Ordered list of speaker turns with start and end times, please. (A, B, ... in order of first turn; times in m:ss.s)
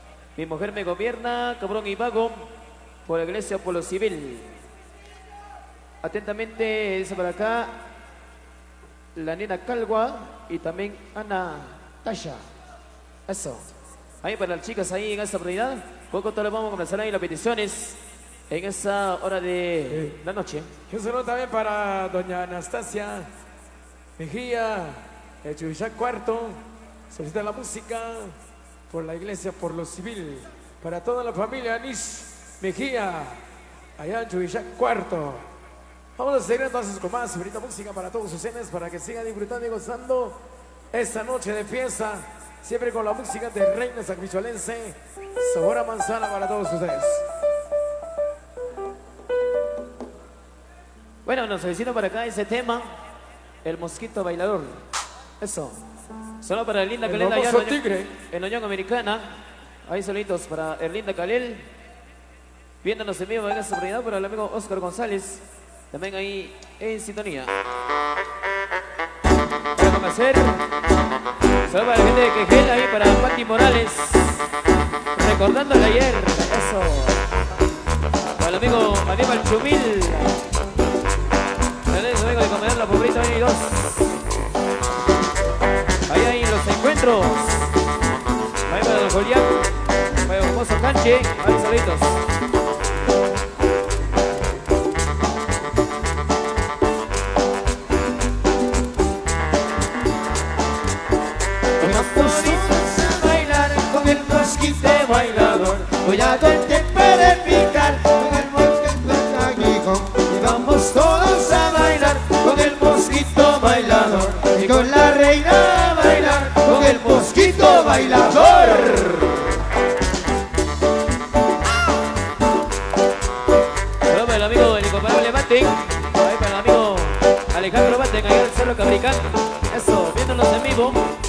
0:00.4-0:02.4 A
0:03.0-0:04.6 A
0:06.0-0:07.8 A
0:09.1-0:12.4 A
0:13.3-0:13.6 A
0:14.2-0:18.0 A
0:18.5-0:20.7 A
0:19.9-0:20.2 B
0:20.9-0:23.3 B
0:24.2-0:28.3 B
0:28.9-0:33.4 B
0:34.0-0:35.4 B
0:36.2-0:40.4 B
0:40.9-0:47.2 B
0:51.2-0:52.8 A
0:53.6-0:54.8 A
0:55.4-0:55.8 A
0:56.4-0:59.3 A
0:57.0-0:58.1 B
0:59.8-1:01.6 A
1:02.8-1:07.5 A
1:09.7-1:10.6 A
1:11.6-1:14.4 A
1:15.1-1:17.2 A
1:18.4-1:20.4 A
1:21.9-1:24.2 A
1:26.1-1:27.7 A
1:28.7-1:29.7 A
1:30.2-1:32.2 A
1:41.8-1:48.4 A
1:41.8-1:43.4 C
1:46.0-1:50.9 C
1:50.3-1:55.2 A
1:54.3-1:59.1 C
1:55.9-1:59.4 A
2:04.1-2:11.1 A